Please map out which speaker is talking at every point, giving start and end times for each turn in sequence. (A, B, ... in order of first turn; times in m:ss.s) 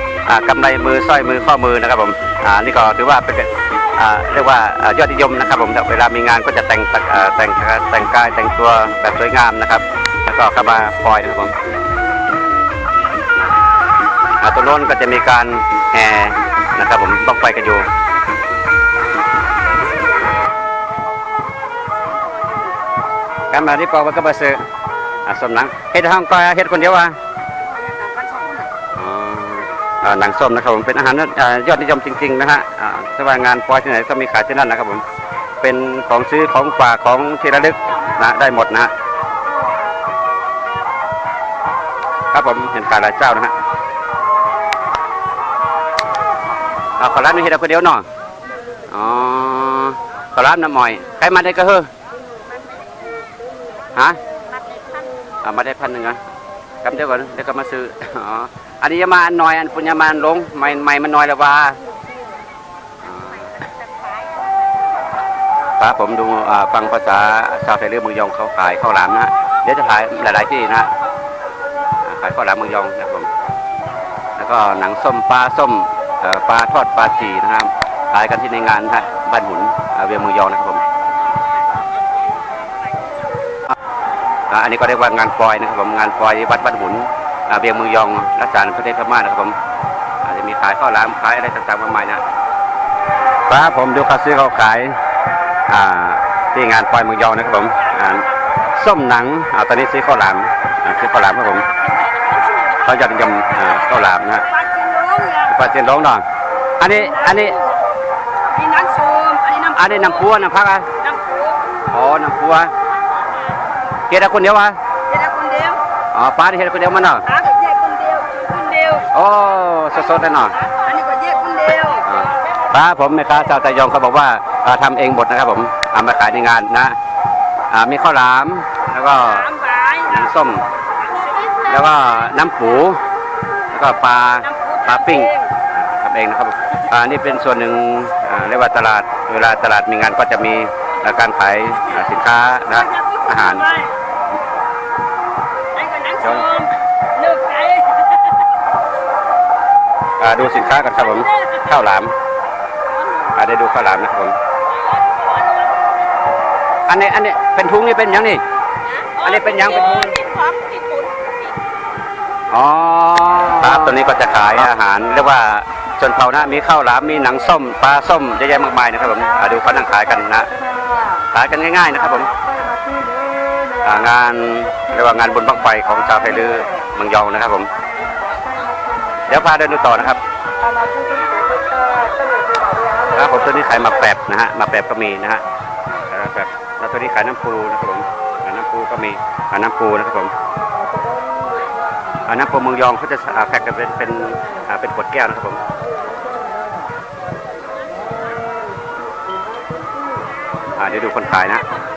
0:00.2-0:11.5 A
0:14.4-0:17.9 A
0:23.5-0:24.6 A
0:25.2-0:27.2 A
0:27.8-0:28.7 B
0:29.0-0:35.0 A
0:35.6-0:38.9 A
0:42.3-0:43.5 A
0:47.0-0:48.0 A
0:48.9-0:51.9 A
0:52.5-0:53.2 B
0:53.9-0:54.2 A
0:54.5-0:55.3 B
0:55.4-0:56.2 A
0:56.8-1:01.8 A
1:03.0-1:03.6 A
1:03.6-1:04.9 B
1:05.8-1:10.9 A
1:12.0-1:13.3 A
1:14.4-1:20.8 A
1:24.5-1:29.6 A
1:30.2-1:32.2 A
1:33.5-1:35.0 A
1:35.7-1:41.7 A
1:42.0-1:42.7 B
1:42.8-1:44.5 A
1:44.5-1:45.5 B
1:45.4-1:46.2 A
1:46.8-1:47.6 A
1:47.4-1:47.6 B
1:48.5-1:49.8 B
1:49.7-1:50.9 A
1:51.0-1:51.5 B
1:51.9-1:52.7 A
1:53.3-1:53.5 B
1:54.1-1:54.8 A
1:55.1-1:55.8 B
1:56.1-1:57.3 A
1:57.3-1:59.1 B
1:59.1-2:00.6 A
2:00.6-2:02.1 B
2:02.0-2:07.0 A
2:07.7-2:10.7 A
2:09.5-2:10.0 B
2:11.0-2:11.8 B
2:11.6-2:13.0 A
2:13.7-2:23.8 A
2:14.6-2:15.4 B
2:25.8-2:28.4 B
2:26.2-2:26.5 A
2:30.2-2:32.1 A
2:33.3-2:34.4 A
2:34.8-2:35.9 B
2:36.9-2:38.4 A
2:38.9-2:41.5 B
2:39.2-2:40.2 A
2:42.5-2:50.5 A
2:51.3-2:52.3 A
2:53.8-2:57.7 A
2:59.3-3:00.2 A
3:03.1-3:05.4 A
3:06.1-3:10.3 A
3:12.2-3:15.6 A
3:20.8-3:21.6 A